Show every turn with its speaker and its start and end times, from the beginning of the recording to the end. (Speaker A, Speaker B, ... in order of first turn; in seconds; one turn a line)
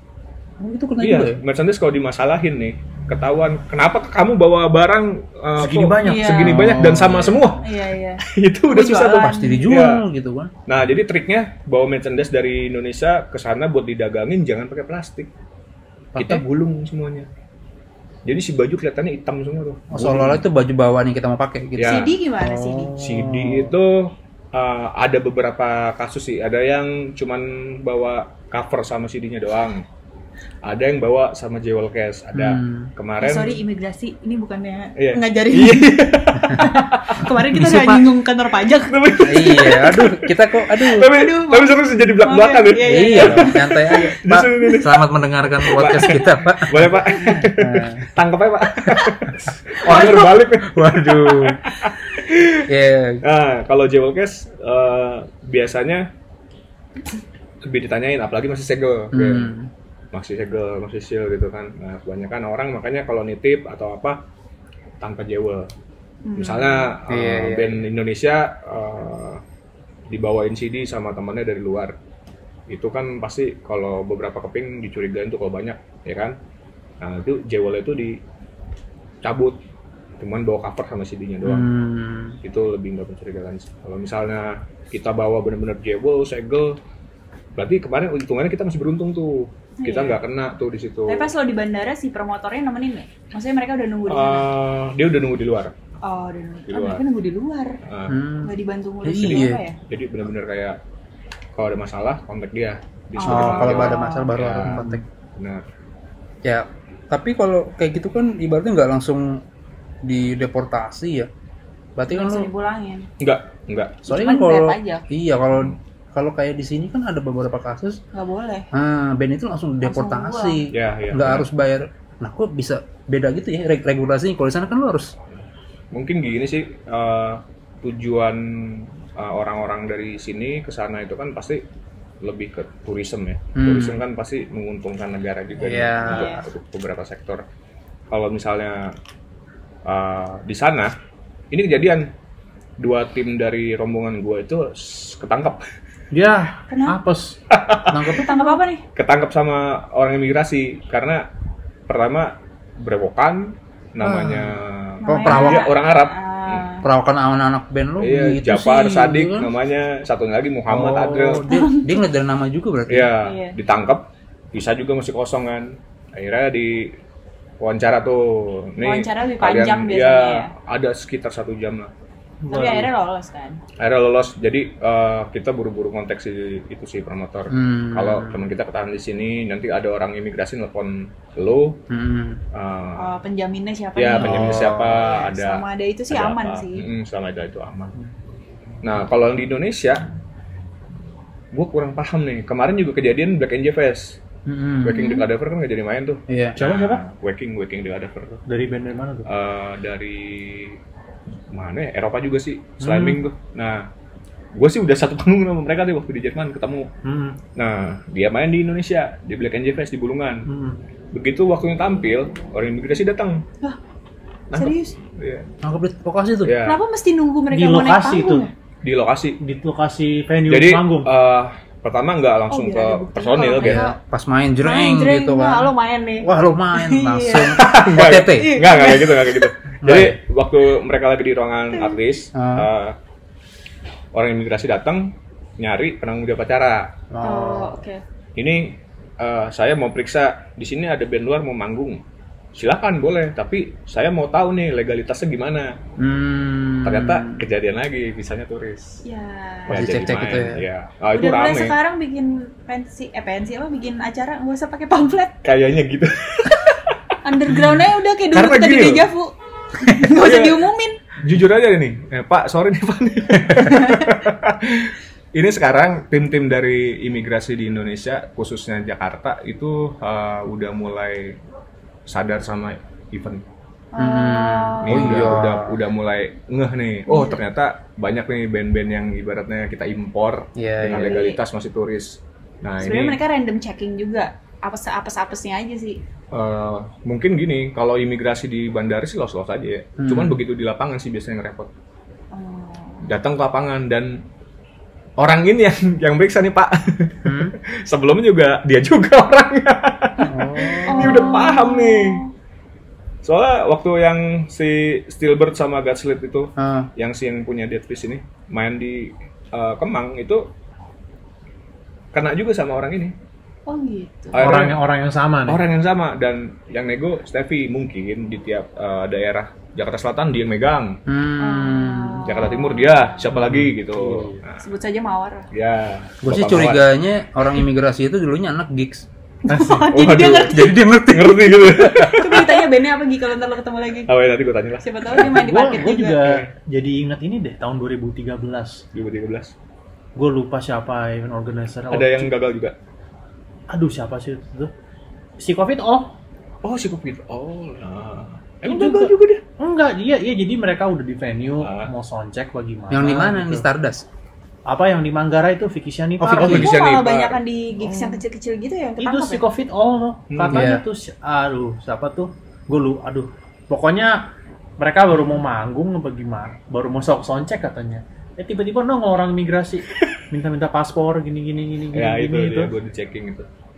Speaker A: 0.6-1.4
Speaker B: 1.0-7.7
Speaker C: 5.6-7.4
Speaker D: 6.0-6.7
Speaker A: 6.7-7.3
Speaker D: 7.6-9.7
Speaker B: 8.2-10.0
Speaker A: 8.8-10.5
Speaker B: 10.7-15.3
Speaker B: 16.2-17.3
Speaker B: 18.3-20.4
Speaker A: 19.9-23.6
Speaker B: 21.8-22.1
Speaker D: 21.8-23.0
Speaker B: 23.0-29.9
Speaker B: 30.6-33.6
Speaker A: 32.3-32.9
Speaker D: 33.2-39.7
Speaker B: 35.0-37.3
Speaker A: 37.4-38.1
Speaker B: 38.8-45.0
Speaker A: 39.2-41.1
Speaker D: 40.9-44.0
Speaker A: 42.9-48.1
Speaker B: 45.6-52.7
Speaker D: 49.9-50.3
Speaker A: 49.9-51.6
Speaker A: 52.7-53.2
Speaker B: 53.2-56.1
Speaker B: 57.6-59.5
Speaker A: 59.1-59.7
Speaker B: 60.1-64.2
Speaker B: 65.0-65.7
Speaker D: 66.3-67.0
Speaker B: 66.4-69.4
Speaker A: 67.1-67.8
Speaker B: 70.1-72.0
Speaker B: 72.7-76.4
Speaker B: 77.0-78.2
Speaker B: 79.2-79.6
Speaker B: 80.2-81.7
Speaker A: 81.4-82.4
Speaker B: 82.4-86.8
Speaker B: 87.6-91.3
Speaker D: 89.8-90.2
Speaker D: 91.1-94.5
Speaker B: 94.1-95.7
Speaker D: 96.0-97.8
Speaker B: 96.7-97.0
Speaker B: 97.8-98.2
Speaker A: 98.1-99.6
Speaker D: 98.4-99.8
Speaker B: 99.2-100.8
Speaker B: 101.5-105.7
Speaker D: 103.2-104.3
Speaker A: 103.2-105.0
Speaker A: 106.4-109.4
Speaker A: 110.0-111.3
Speaker A: 112.0-112.5
Speaker D: 112.1-113.1
Speaker B: 113.2-114.1
Speaker D: 114.1-115.1
Speaker A: 114.1-118.0
Speaker D: 118.1-118.7
Speaker A: 118.7-125.1
Speaker D: 119.8-120.7
Speaker B: 120.7-121.5
Speaker B: 125.9-131.6
Speaker B: 132.2-137.4
Speaker A: 133.6-134.0
Speaker A: 135.6-136.3
Speaker D: 136.0-136.5
Speaker B: 138.1-139.0
Speaker B: 139.9-140.9
Speaker B: 141.5-142.1
Speaker B: 142.8-145.7
Speaker C: 146.1-147.4
Speaker D: 146.7-147.0
Speaker B: 147.5-148.3
Speaker A: 147.9-148.6
Speaker D: 148.0-148.8
Speaker B: 148.9-151.3
Speaker B: 151.9-156.7
Speaker A: 154.0-155.7
Speaker D: 155.0-156.9
Speaker A: 156.8-159.5
Speaker B: 158.0-161.5
Speaker C: 160.8-161.4
Speaker A: 160.8-163.1
Speaker D: 161.5-162.1
Speaker B: 162.9-167.0
Speaker D: 163.2-163.6
Speaker B: 167.6-171.9
Speaker D: 168.8-170.5
Speaker C: 172.4-172.9
Speaker D: 172.5-173.6
Speaker B: 173.8-181.8
Speaker A: 177.5-178.5
Speaker A: 181.9-182.4
Speaker B: 182.5-183.1
Speaker D: 183.0-186.9
Speaker B: 184.0-187.9
Speaker A: 184.2-184.9
Speaker B: 188.8-190.0
Speaker B: 191.5-194.2
Speaker A: 194.5-195.1
Speaker B: 194.8-198.4
Speaker D: 194.9-195.2
Speaker A: 196.3-196.6
Speaker C: 196.6-197.0
Speaker C: 198.5-199.3
Speaker B: 199.3-200.8
Speaker B: 201.5-203.9
Speaker C: 202.8-203.2
Speaker B: 204.6-206.9
Speaker C: 207.0-207.4
Speaker B: 207.6-210.5
Speaker C: 210.5-210.8
Speaker B: 211.1-213.4
Speaker B: 214.5-215.5
Speaker D: 214.5-215.0
Speaker A: 215.6-216.6
Speaker B: 216.4-216.8
Speaker D: 216.7-218.5
Speaker C: 217.5-218.5
Speaker B: 218.8-219.4
Speaker C: 219.4-221.1
Speaker B: 220.5-223.9
Speaker D: 222.5-224.0
Speaker A: 223.6-225.7
Speaker D: 224.6-229.5
Speaker A: 226.2-228.6
Speaker B: 227.5-233.0
Speaker A: 229.8-230.2
Speaker A: 232.3-232.7
Speaker B: 234.1-237.0
Speaker A: 237.1-237.8
Speaker D: 237.2-238.0
Speaker B: 238.4-242.0
Speaker B: 242.6-245.8
Speaker A: 246.0-247.4
Speaker B: 246.8-249.0
Speaker D: 249.1-250.0
Speaker B: 249.7-251.8
Speaker A: 249.7-250.6
Speaker D: 251.1-255.4
Speaker B: 255.4-257.2
Speaker D: 257.2-261.0
Speaker B: 258.3-259.1
Speaker B: 260.2-260.6
Speaker B: 261.2-271.4
Speaker D: 263.6-264.2
Speaker B: 272.1-273.5
Speaker D: 273.9-275.4
Speaker A: 274.0-275.8
Speaker B: 274.8-283.2
Speaker D: 277.1-277.4
Speaker A: 280.6-281.2
Speaker D: 280.8-281.4
Speaker D: 282.8-286.0
Speaker B: 286.3-291.7
Speaker A: 290.0-290.4
Speaker D: 292.3-293.1
Speaker B: 293.0-294.2
Speaker B: 295.2-302.2
Speaker A: 297.2-297.6
Speaker A: 300.3-301.4
Speaker D: 300.8-302.3
Speaker B: 303.2-310.5
Speaker A: 306.6-306.9
Speaker B: 312.1-313.1
Speaker D: 313.7-314.5
Speaker B: 314.3-314.8
Speaker C: 314.4-315.6
Speaker B: 315.5-321.0
Speaker A: 321.1-322.3
Speaker D: 321.4-323.3
Speaker B: 322.2-324.7
Speaker C: 323.4-324.4
Speaker D: 324.6-325.5
Speaker B: 325.5-326.9
Speaker A: 326.2-329.1
Speaker D: 329.5-330.8
Speaker C: 329.5-329.9
Speaker B: 329.9-332.6
Speaker A: 330.2-332.4
Speaker D: 332.1-334.2
Speaker B: 334.1-335.5
Speaker D: 334.8-336.3
Speaker C: 335.2-338.8
Speaker B: 336.2-336.5
Speaker B: 338.9-339.5
Speaker C: 340.2-342.3
Speaker B: 341.9-342.8
Speaker C: 343.7-344.7
Speaker C: 345.4-346.1
Speaker B: 346.6-349.4
Speaker C: 348.6-353.7
Speaker B: 351.6-351.9
Speaker A: 352.9-354.1
Speaker C: 354.7-356.7
Speaker A: 356.2-356.7
Speaker B: 356.3-357.4
Speaker D: 356.4-359.5
Speaker C: 357.9-358.2
Speaker C: 359.0-372.7
Speaker B: 360.3-360.7
Speaker A: 360.5-360.8
Speaker B: 371.9-373.5